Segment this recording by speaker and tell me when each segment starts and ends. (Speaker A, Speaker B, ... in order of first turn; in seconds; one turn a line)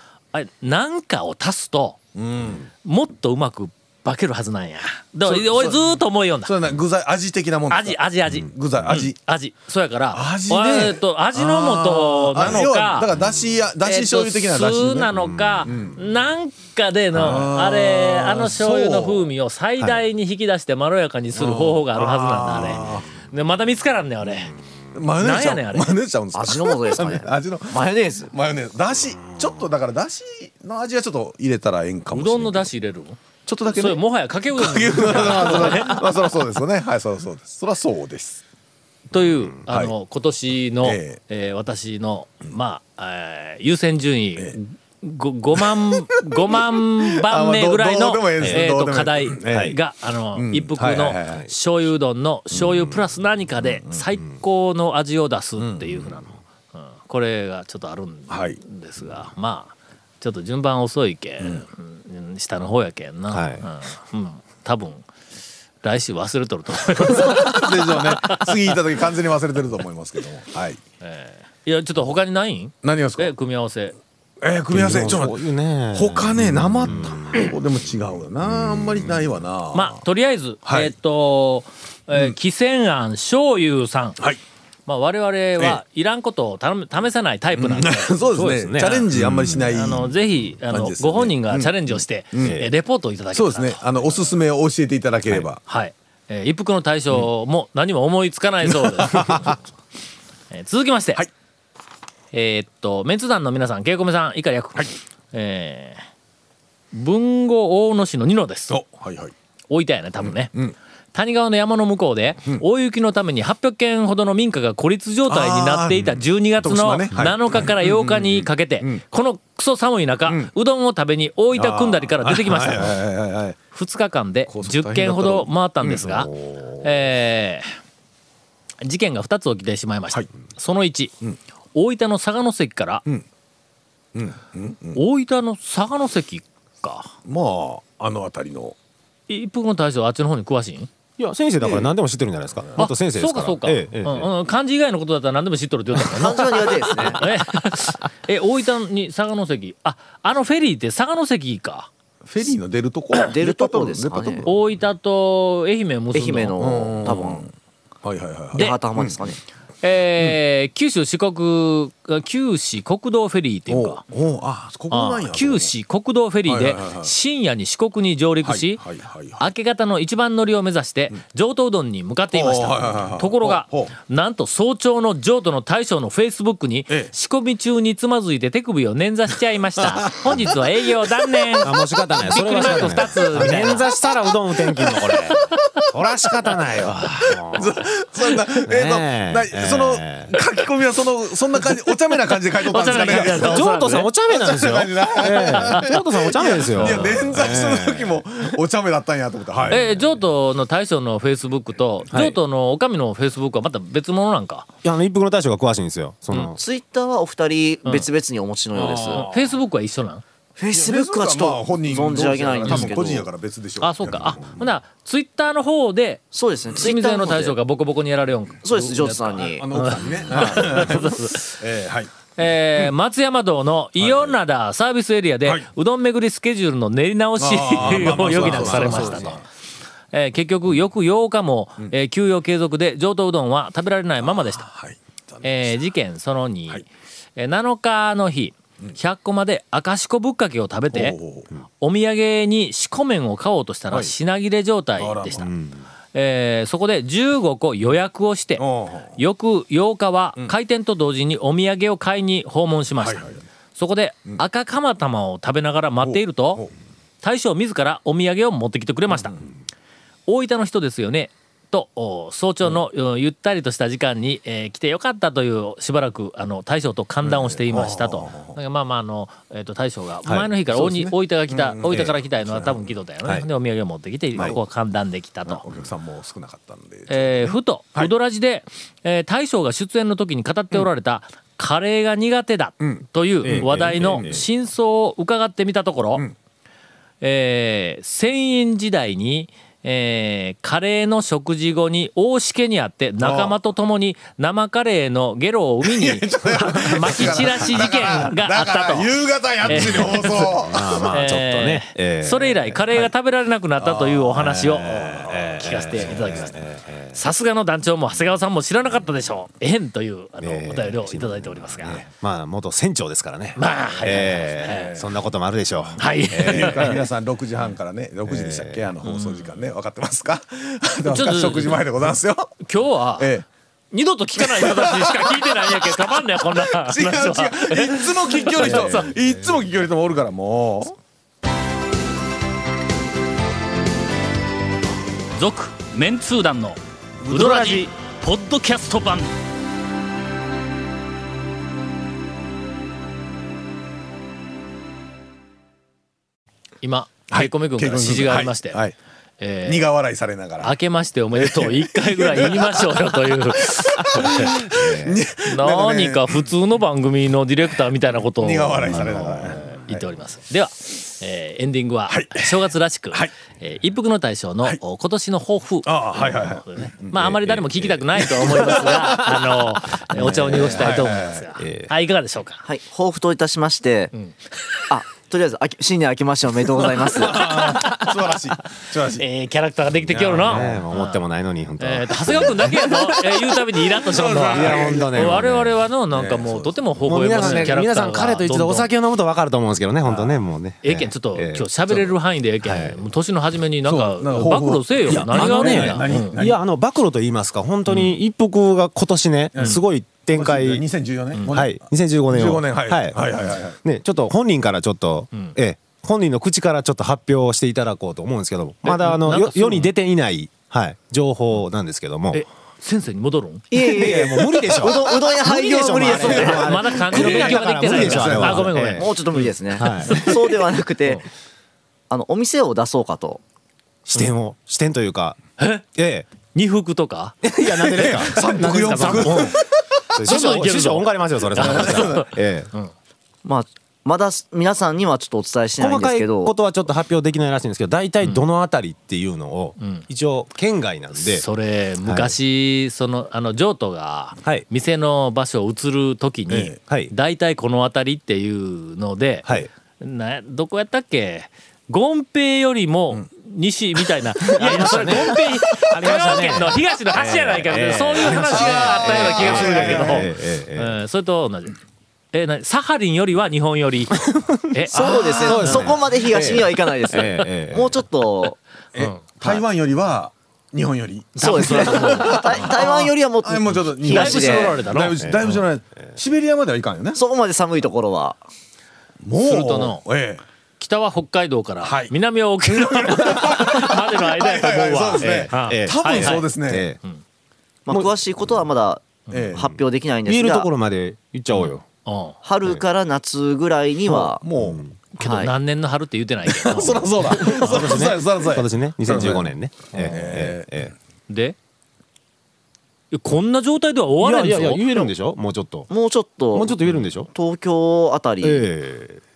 Speaker A: 0.3-2.0
Speaker B: 2.1-2.7
Speaker A: 2.8-6.5
Speaker B: 5.2-9.2
Speaker A: 7.7-13.1
Speaker B: 10.1-15.1
Speaker A: 13.8-24.5
Speaker C: 15.1-15.8
Speaker B: 15.7-16.0
Speaker B: 17.1-20.0
Speaker C: 17.1-17.4
Speaker B: 21.3-23.1
Speaker B: 24.9-32.7
Speaker A: 25.2-26.0
Speaker D: 26.3-28.3
Speaker A: 32.1-36.1
Speaker B: 33.5-38.4
Speaker A: 39.1-65.0
Speaker B: 39.6-39.9
Speaker B: 40.8-41.2
Speaker B: 45.5-49.8
Speaker C: 48.4-48.6
Speaker C: 49.5-49.8
Speaker B: 50.3-51.5
Speaker C: 52.5-53.0
Speaker B: 53.8-54.1
Speaker B: 55.6-56.0
Speaker B: 58.3-58.6
Speaker B: 61.4-61.6
Speaker C: 63.3-63.6
Speaker A: 65.8-68.6
Speaker B: 66.9-70.8
Speaker A: 71.0-74.0
Speaker B: 72.8-73.3
Speaker B: 74.4-80.0
Speaker C: 74.7-77.2
Speaker A: 79.7-84.2
Speaker B: 80.6-80.9
Speaker A: 84.8-88.2
Speaker B: 85.6-85.8
Speaker B: 87.5-90.2
Speaker C: 88.3-89.6
Speaker A: 89.7-94.4
Speaker B: 90.7-92.6
Speaker C: 92.4-92.7
Speaker B: 93.3-95.6
Speaker A: 95.7-99.6
Speaker B: 98.6-99.5
Speaker A: 100.5-101.2
Speaker A: 102.3-106.0
Speaker A: 106.9-108.8
Speaker B: 108.7-109.3
Speaker A: 109.7-110.5
Speaker B: 110.2-110.7
Speaker A: 111.1-123.0
Speaker B: 115.3-119.0
Speaker B: 120.2-120.5
Speaker B: 121.5-123.6
Speaker A: 123.7-126.3
Speaker B: 124.5-126.2
Speaker C: 126.1-127.0
Speaker A: 126.8-127.7
Speaker A: 128.8-131.2
Speaker A: 131.7-133.0
Speaker B: 134.1-135.0
Speaker A: 134.9-137.1
Speaker B: 137.2-138.7
Speaker A: 139.3-140.9
Speaker C: 141.2-144.3
Speaker B: 141.6-141.9
Speaker A: 142.8-151.9
Speaker D: 146.1-147.3
Speaker B: 152.2-154.5
Speaker D: 153.3-154.5
Speaker A: 154.4-156.6
Speaker D: 156.1-157.5
Speaker B: 156.6-157.5
Speaker B: 158.0-159.2
Speaker A: 158.5-158.8
Speaker D: 158.5-159.4
Speaker A: 159.8-164.0
Speaker B: 163.7-165.7
Speaker A: 164.9-168.8
Speaker B: 166.4-167.1
Speaker B: 168.4-169.5
Speaker A: 169.4-183.9
Speaker B: 172.3-173.9
Speaker B: 179.8-181.7
Speaker C: 181.6-187.8
Speaker B: 182.6-183.8
Speaker B: 184.8-185.8
Speaker B: 187.3-193.6
Speaker C: 188.7-190.3
Speaker A: 192.7-194.1
Speaker C: 192.9-198.5
Speaker B: 194.3-199.9
Speaker A: 195.6-195.8
Speaker A: 196.8-197.2
Speaker C: 199.5-200.1
Speaker A: 199.7-204.7
Speaker C: 202.1-202.4
Speaker C: 204.8-206.6
Speaker D: 206.4-209.2
Speaker B: 208.7-209.5
Speaker A: 208.8-210.2
Speaker D: 210.6-213.3
Speaker B: 210.7-214.6
Speaker A: 213.8-221.6
Speaker D: 216.3-217.6
Speaker D: 218.6-219.6
Speaker B: 219.4-222.9
Speaker A: 222.3-229.4
Speaker B: 224.0-224.4
Speaker B: 227.3-229.4
Speaker C: 227.8-229.4
Speaker A: 230.1-234.7
Speaker B: 234.2-235.9
Speaker A: 235.4-236.8
Speaker A: 237.3-241.2
Speaker B: 240.9-241.5
Speaker A: 241.8-245.5
Speaker B: 245.0-245.5
Speaker C: 245.4-245.8
Speaker A: 246.1-248.7
Speaker B: 248.6-249.2
Speaker A: 249.2-256.6
Speaker B: 252.9-253.4
Speaker B: 256.0-256.7
Speaker A: 257.2-259.4
Speaker A: 260.3-275.6
Speaker B: 267.2-268.6
Speaker B: 270.7-273.0
Speaker B: 275.4-278.1
Speaker A: 277.1-286.2
Speaker B: 282.8-284.4
Speaker C: 283.4-284.4
Speaker A: 287.2-300.5
Speaker B: 293.2-293.6
Speaker B: 295.8-301.1
Speaker C: 297.1-297.5
Speaker C: 299.6-302.8
Speaker A: 301.1-306.6
Speaker B: 303.8-306.5
Speaker C: 304.3-307.2
Speaker A: 307.1-312.0
Speaker C: 310.4-316.9
Speaker A: 313.5-315.0
Speaker B: 314.2-315.1
Speaker A: 316.0-317.0
Speaker B: 316.3-322.6
Speaker C: 318.3-318.9
Speaker A: 319.0-319.6
Speaker A: 321.1-321.9
Speaker A: 322.6-323.3
Speaker B: 323.2-323.4
Speaker A: 323.9-329.1
Speaker B: 324.4-330.9
Speaker C: 328.6-329.3
Speaker A: 335.3-339.3
Speaker B: 337.2-337.8
Speaker A: 346.8-348.8
Speaker B: 347.3-348.9
Speaker A: 349.4-349.9
Speaker B: 349.6-350.8
Speaker A: 350.6-354.6
Speaker B: 351.3-356.5
Speaker C: 354.2-355.1
Speaker A: 355.4-372.6
Speaker B: 358.4-360.0
Speaker C: 358.9-359.6
Speaker B: 362.1-362.5
Speaker B: 365.8-367.3
Speaker C: 367.1-368.3
Speaker B: 368.2-369.4
Speaker C: 370.1-371.0
Speaker B: 370.2-371.5
Speaker C: 371.6-371.9
Speaker D: 372.6-374.1
Speaker A: 374.1-374.5
Speaker D: 374.9-377.4
Speaker B: 377.1-379.2
Speaker A: 377.2-378.1
Speaker A: 379.1-381.2
Speaker B: 380.1-380.8
Speaker C: 380.1-382.8
Speaker A: 381.8-388.9
Speaker B: 382.3-382.6
Speaker B: 384.0-385.4
Speaker C: 384.5-385.8
Speaker B: 386.1-387.8
Speaker C: 387.0-393.0
Speaker B: 390.1-390.4
Speaker A: 390.8-396.4
Speaker B: 393.8-396.6
Speaker C: 395.1-400.8
Speaker B: 399.5-403.8
Speaker A: 401.3-401.6
Speaker C: 401.5-403.2
Speaker C: 403.8-412.4
Speaker A: 408.8-409.9
Speaker A: 412.3-413.7
Speaker D: 413.7-416.7
Speaker C: 413.7-420.4
Speaker B: 414.4-414.6
Speaker A: 416.1-419.4
Speaker B: 416.2-418.7
Speaker D: 418.8-421.2
Speaker A: 420.0-420.4
Speaker D: 422.1-423.4
Speaker C: 424.0-425.4
Speaker A: 425.6-425.8
Speaker C: 425.9-426.3
Speaker A: 426.5-427.3
Speaker C: 427.4-429.6
Speaker B: 427.7-430.4
Speaker A: 428.9-429.6
Speaker C: 430.1-432.7
Speaker A: 430.2-432.9
Speaker B: 431.5-432.3
Speaker D: 433.4-436.5
Speaker C: 435.8-441.4
Speaker A: 439.8-440.1
Speaker A: 441.1-461.8
Speaker C: 442.0-442.3
Speaker B: 446.5-446.8
Speaker C: 449.4-449.7
Speaker C: 454.5-461.0
Speaker B: 454.6-456.1
Speaker B: 458.2-460.3
Speaker A: 462.3-465.9
Speaker C: 464.3-468.0
Speaker D: 464.9-468.6
Speaker B: 464.9-465.8
Speaker B: 468.9-477.2
Speaker A: 471.4-472.8
Speaker D: 471.4-474.8
Speaker A: 474.1-475.1
Speaker C: 475.2-475.6
Speaker D: 477.1-478.4
Speaker B: 479.2-480.4
Speaker A: 479.4-480.0
Speaker A: 480.8-486.5
Speaker B: 481.8-486.9
Speaker C: 485.1-487.0
Speaker D: 487.9-490.7
Speaker C: 487.9-488.2
Speaker B: 489.3-489.8
Speaker C: 490.2-491.8
Speaker A: 491.5-492.4
Speaker D: 492.4-494.4
Speaker B: 494.1-494.8
Speaker C: 494.6-494.9
Speaker A: 495.1-498.0
Speaker D: 495.2-495.5
Speaker B: 496.5-500.7
Speaker C: 496.8-500.9
Speaker A: 501.3-501.6
Speaker A: 503.1-504.9
Speaker C: 504.2-505.9
Speaker D: 505.9-506.8
Speaker C: 506.5-507.3
Speaker D: 507.3-508.6
Speaker C: 508.4-509.2